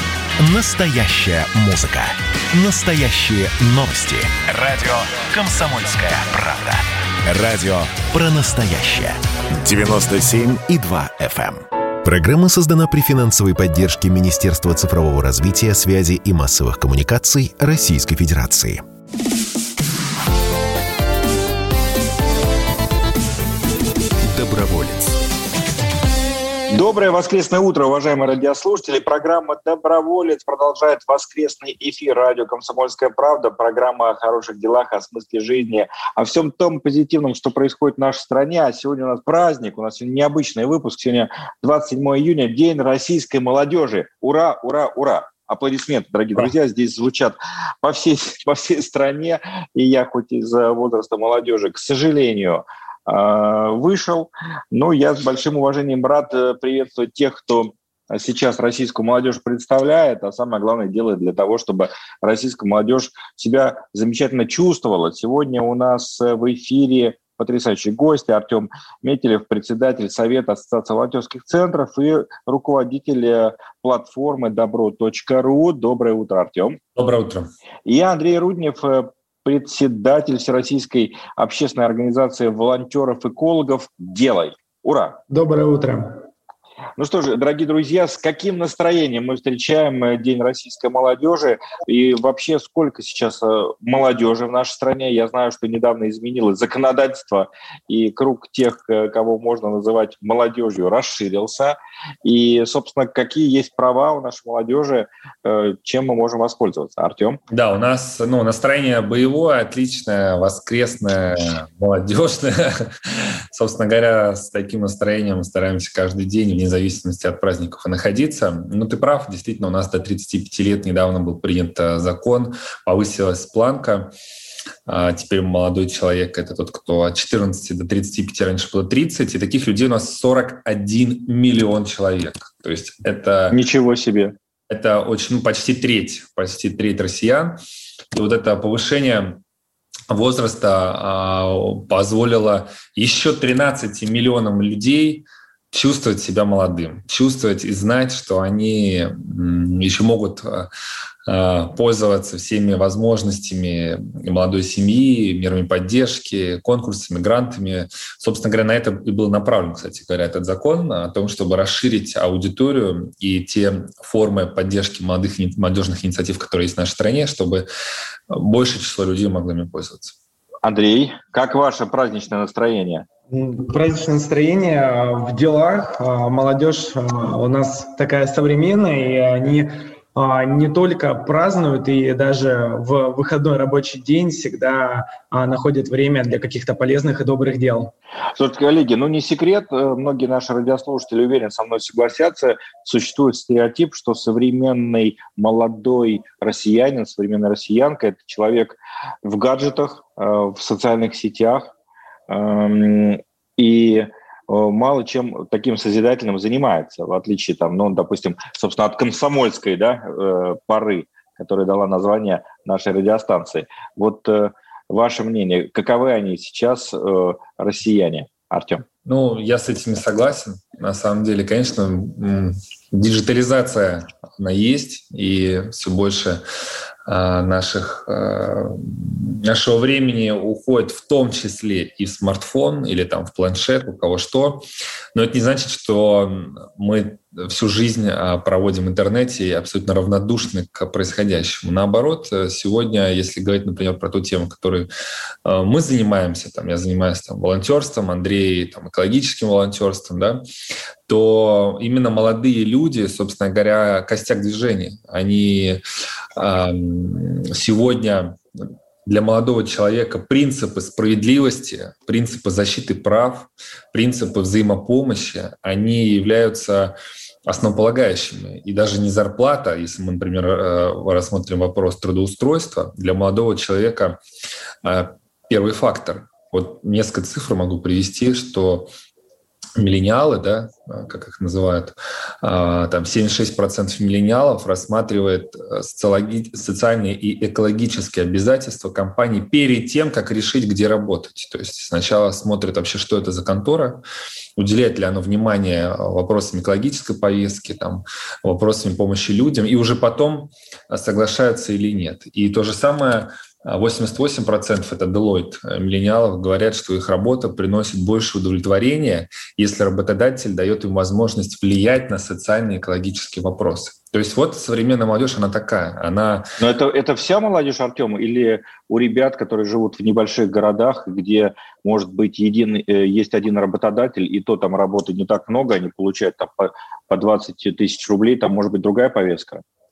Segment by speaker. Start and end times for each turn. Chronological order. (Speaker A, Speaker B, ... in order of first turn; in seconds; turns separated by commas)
Speaker A: 0.4-18.8, Speaker A: 24.2-25.2, Speaker B: 26.7-76.8, Speaker C: 77.0-77.5, Speaker B: 77.8-85.2, Speaker D: 85.3-86.2, Speaker B: 87.0-107.4, Speaker C: 107.5-124.1, Speaker C: 124.8-133.6, Speaker B: 133.5-134.3, Speaker C: 134.7-137.6, Speaker C: 138.1-139.4, Speaker C: 140.1-150.7, Speaker C: 151.2-167.7, Speaker C: 168.3-170.2, Speaker B: 170.6-173.1, Speaker D: 173.3-187.9, Speaker B: 188.3-201.7, Speaker B: 202.3-218.8, Speaker C: 219.0-226.4, Speaker C: 227.1-244.9, Speaker C: 245.4-250.4, Speaker C: 251.1-255.8, Speaker C: 256.4-258.4, Speaker C: 259.0-266.9, Speaker C: 267.4-274.2, Speaker C: 274.8-278.9, Speaker C: 279.8-294.0, Speaker C: 294.6-316.5, Speaker B: 316.6-329.6